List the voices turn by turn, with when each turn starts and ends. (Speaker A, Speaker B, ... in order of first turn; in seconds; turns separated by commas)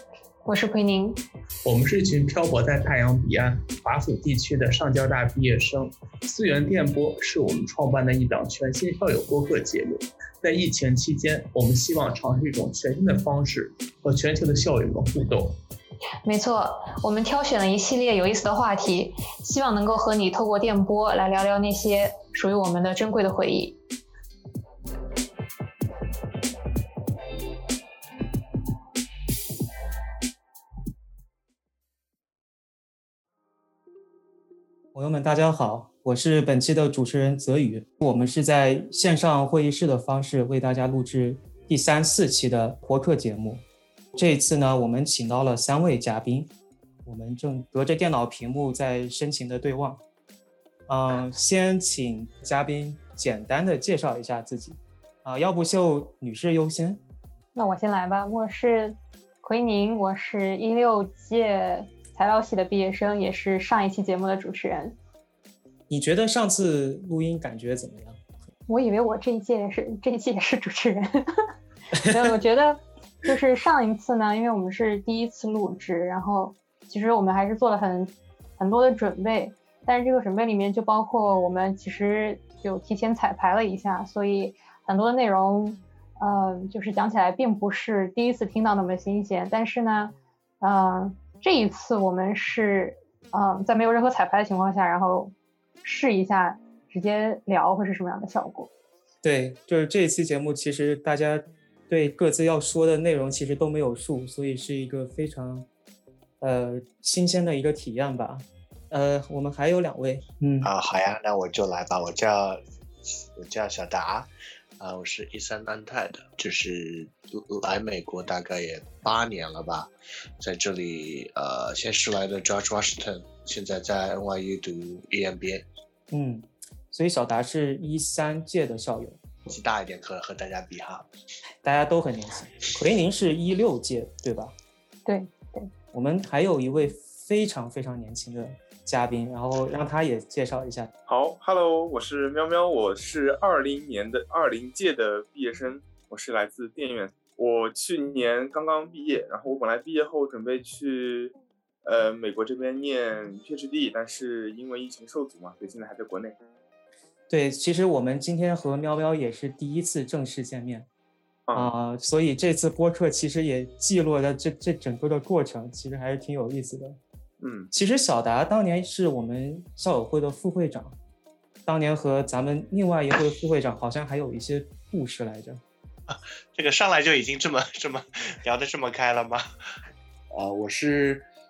Speaker A: 0.5-1.2, Speaker B: 1.6-15.6, Speaker A: 16.2-23.8, Speaker C: 34.9-43.6, Speaker C: 44.1-46.5, Speaker C: 47.0-50.0, Speaker C: 50.9-57.0, Speaker A: 57.5-65.0, Speaker C: 65.9-68.2, Speaker A: 68.7-71.0, Speaker A: 72.0-95.3, Speaker A: 95.8-98.7, Speaker C: 99.2-105.7, Speaker C: 106.4-110.7, Speaker D: 110.6-114.3, Speaker D: 114.8-119.9, Speaker D: 120.4-125.6, Speaker C: 126.1-129.2, Speaker D: 129.5-131.1, Speaker C: 131.6-134.5, Speaker A: 135.1-135.7, Speaker C: 135.9-140.9, Speaker E: 141.1-156.3, Speaker C: 157.3-160.9, Speaker C: 161.5-167.0, Speaker E: 167.4-167.7, Speaker C: 167.7-170.9, Speaker C: 171.7-175.6, Speaker D: 176.1-179.4, Speaker D: 180.3-181.3